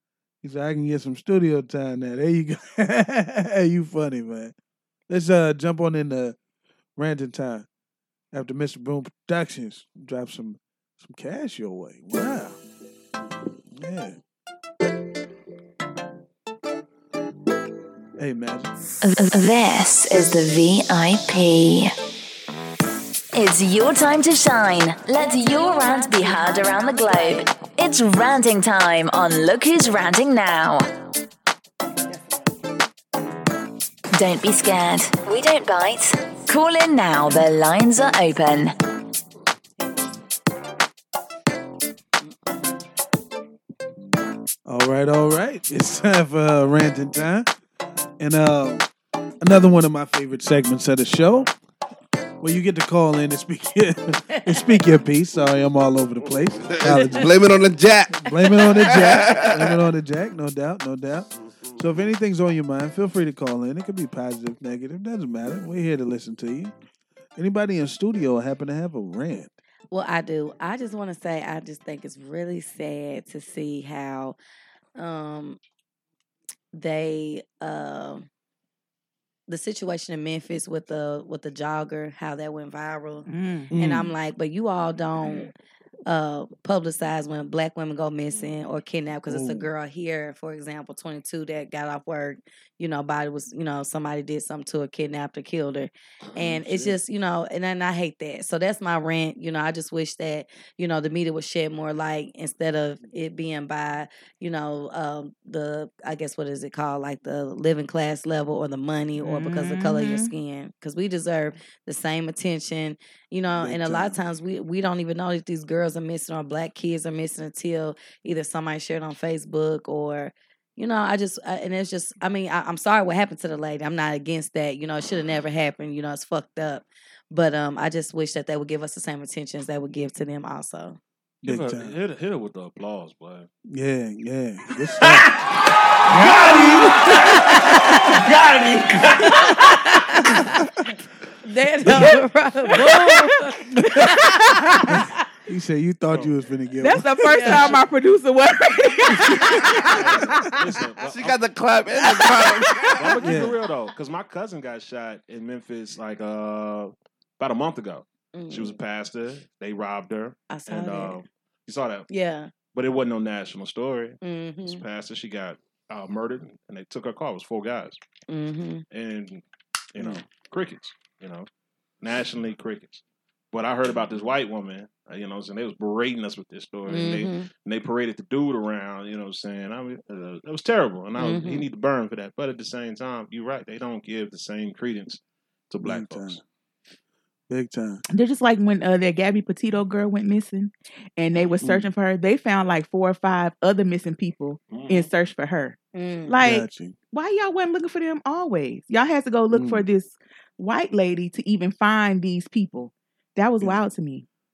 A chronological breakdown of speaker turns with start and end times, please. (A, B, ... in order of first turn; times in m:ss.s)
0:00.4-0:04.5 A
0:05.1-0:06.4 A
0:07.0-0:07.7 A
0:08.3-0:12.6 A
0:13.7-0:14.2 A
0:18.2-0:18.7 A
0:19.0-0:21.9 B
0:23.3-0:30.9 B
0:34.1-0:38.7 B
0:44.6-0:47.5 A
0:48.2-0:48.8 A
0:49.4-0:51.5 A
0:52.4-0:57.3 A
0:54.3-0:54.6 C
0:56.6-0:59.7 D
0:58.2-1:06.7 A
1:07.4-1:09.5 A
1:09.9-1:14.4 C
1:15.0-1:15.6 C
1:16.7-1:18.3 C
1:19.5-1:25.5 C
1:23.3-1:23.7 E
1:23.7-1:24.1 A
1:26.1-2:11.0 C
1:29.3-1:29.7 A
1:36.6-1:36.9 A
1:49.2-1:50.3 E
1:53.5-1:54.2 A
2:11.4-2:11.9 A
2:11.4-2:13.5 F
2:13.7-2:15.4 A
2:16.0-2:18.0 A
2:17.2-2:18.2 C
2:19.2-2:20.9 C
2:20.2-2:20.7 A
2:21.4-2:25.1 C
2:21.8-2:22.2 A
2:22.7-2:24.9 E
2:23.7-2:24.1 A
2:24.8-2:27.7 A
2:26.8-2:30.4 E
2:27.2-2:27.8 C
2:29.2-2:29.8 A
2:29.8-2:31.4 F
2:31.0-2:33.2 D
2:32.9-2:42.1 F
2:33.2-2:33.6 A
2:38.3-2:38.8 C
2:40.5-2:41.2 C
2:42.1-2:42.5 C
2:42.7-2:48.0 F
2:44.2-2:44.8 C
2:48.3-2:48.8 C
2:48.9-2:49.4 F
2:49.9-2:51.5 F
2:52.0-3:06.4 F
2:56.9-2:57.5 C
3:01.2-3:01.6 C
3:05.8-3:06.4 A
3:07.5-3:08.0 A
3:08.1-3:24.2 E
3:11.6-3:11.9 A
3:14.7-3:15.1 F
3:15.9-3:16.4 C
3:16.4-3:17.0 A
3:19.5-3:19.8 A